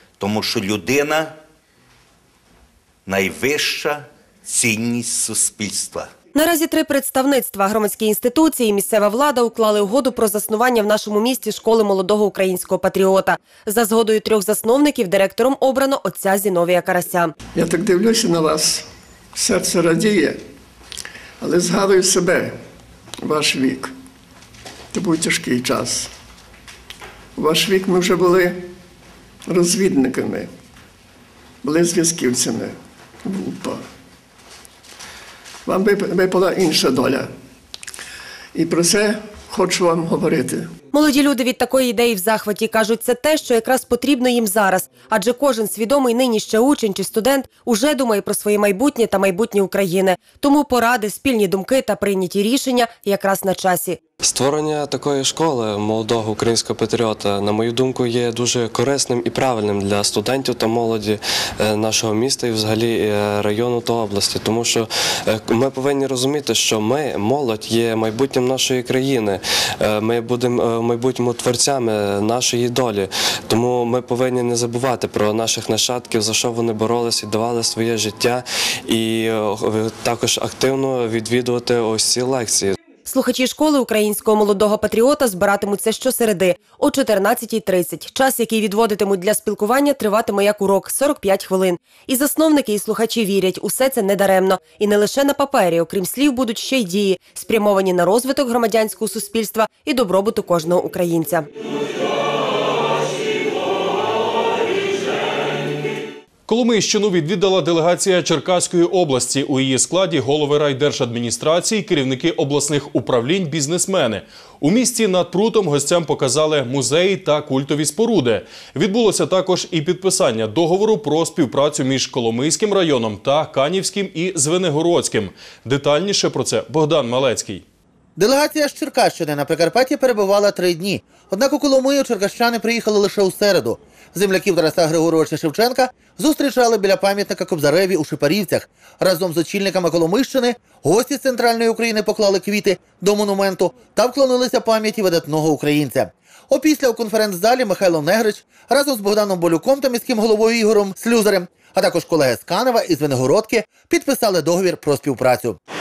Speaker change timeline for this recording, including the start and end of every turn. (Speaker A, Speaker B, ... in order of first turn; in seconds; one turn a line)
Speaker A: 0.2-1.3
Speaker A: 3.0-6.1
Speaker B: 6.3-17.3
Speaker C: 17.5-20.4
Speaker C: 21.4-22.6
Speaker C: 23.2-23.9
Speaker C: 24.9-26.1
Speaker C: 27.4-28.6
Speaker C: 29.5-30.5
Speaker C: 31.6-33.8
Speaker C: 35.6-37.3
Speaker C: 38.5-40.7
Speaker B: 40.9-54.0
Speaker D: 54.2-82.8
Speaker B: 83.0-101.5
Speaker E: 106.5-127.6
Speaker F: 128.2-155.6